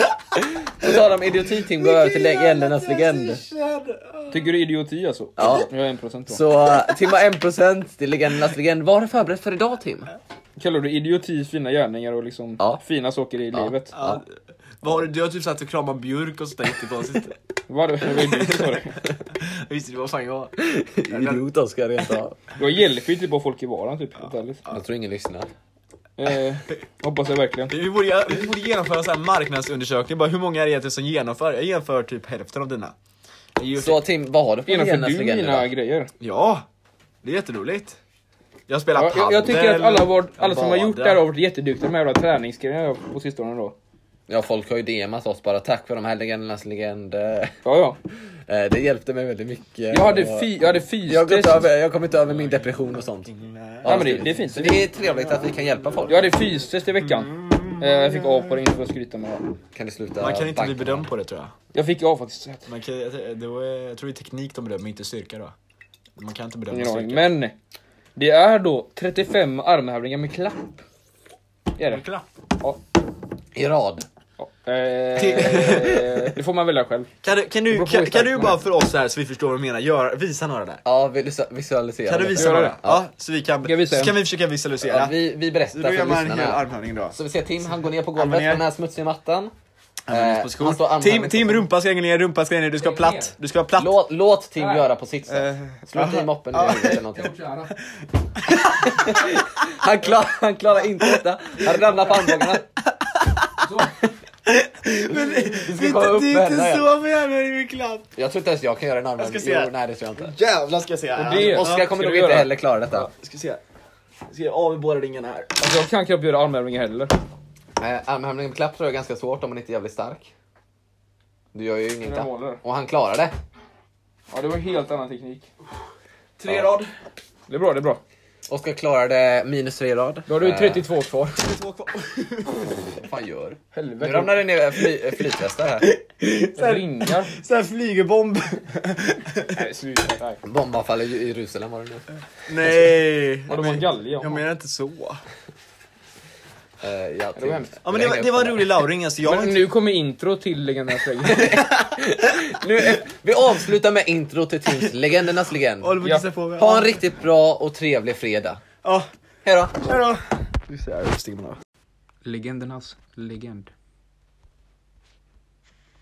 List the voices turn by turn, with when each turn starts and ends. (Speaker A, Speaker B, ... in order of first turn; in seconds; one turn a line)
Speaker A: 0.3-3.4
Speaker B: 1.6-4.5
Speaker C: 4.3-6.4
Speaker A: 5.4-5.7
Speaker A: 6.3-10.1
Speaker C: 10.6-13.9
Speaker A: 13.5-14.2
Speaker B: 13.9-17.4
Speaker C: 17.7-19.0
Speaker B: 18.2-20.6
Speaker A: 20.6-22.4
Speaker B: 21.1-21.4
Speaker C: 22.6-24.6
Speaker A: 24.7-25.5
Speaker C: 26.2-27.7
Speaker B: 27.7-32.9
Speaker B: 33.6-34.0
Speaker A: 33.8-35.7
Speaker C: 34.7-36.1
Speaker B: 36.2-36.6
Speaker B: 37.2-38.0
Speaker B: 38.7-41.3
Speaker C: 38.9-43.7
Speaker A: 44.3-47.5
Speaker C: 47.6-48.0
Speaker A: 48.5-53.3
Speaker C: 49.9-51.7
Speaker B: 52.2-54.3
Speaker A: 53.8-56.3
Speaker C: 53.8-54.8
Speaker C: 56.1-59.5
Speaker B: 57.0-58.6
Speaker A: 59.7-61.1
Speaker B: 60.2-61.5
Speaker C: 61.7-62.6
Speaker B: 62.7-65.5
Speaker B: 66.2-67.3
Speaker C: 66.7-67.5
Speaker C: 68.2-70.8
Speaker C: 71.8-72.0
Speaker B: 71.9-72.2
Speaker A: 73.5-74.0
Speaker C: 74.4-77.1
Speaker B: 75.2-76.3
Speaker B: 77.2-80.8
Speaker C: 77.7-78.6
Speaker A: 80.8-83.0
Speaker B: 82.1-85.1
Speaker C: 82.3-82.8
Speaker C: 83.6-84.1
Speaker A: 84.8-89.5
Speaker B: 85.7-87.2
Speaker B: 88.1-88.6
Speaker B: 90.1-94.0
Speaker A: 90.1-91.7
Speaker C: 92.8-93.3
Speaker A: 93.8-97.3
Speaker C: 94.6-94.8
Speaker B: 95.3-97.1
Speaker C: 97.1-97.7
Speaker B: 97.9-99.4
Speaker A: 98.5-102.6
Speaker B: 101.0-103.7
Speaker C: 103.6-103.9
Speaker A: 103.8-104.0
Speaker B: 104.4-108.1
Speaker A: 105.1-106.9
Speaker A: 108.2-110.3
Speaker B: 109.2-111.9
Speaker C: 111.2-112.5
Speaker A: 111.3-113.1
Speaker B: 112.9-113.6
Speaker B: 114.3-115.6
Speaker C: 115.6-117.1
Speaker A: 117.8-120.3
Speaker A: 121.5-123.3
Speaker C: 122.0-122.6
Speaker C: 124.3-125.5
Speaker B: 126.4-126.9
Speaker A: 126.5-126.7
Speaker C: 127.5-128.0
Speaker A: 128.5-130.9
Speaker C: 130.3-131.5
Speaker B: 131.3-132.9
Speaker A: 132.7-135.9
Speaker C: 133.7-134.4
Speaker B: 134.8-135.2
Speaker B: 135.8-139.6
Speaker C: 136.6-137.3
Speaker C: 139.5-140.4
Speaker A: 140.4-142.0
Speaker B: 142.5-145.2
Speaker C: 143.5-144.4
Speaker A: 146.8-148.8
Speaker C: 147.3-147.7
Speaker B: 147.8-149.7
Speaker C: 149.2-151.6
Speaker A: 151.3-156.0
Speaker B: 151.4-151.9
Speaker B: 155.8-157.0
Speaker C: 156.0-156.3
Speaker A: 156.6-158.6
Speaker B: 158.8-159.1
Speaker A: 159.4-159.9
Speaker B: 159.8-161.6
Speaker C: 162.2-163.7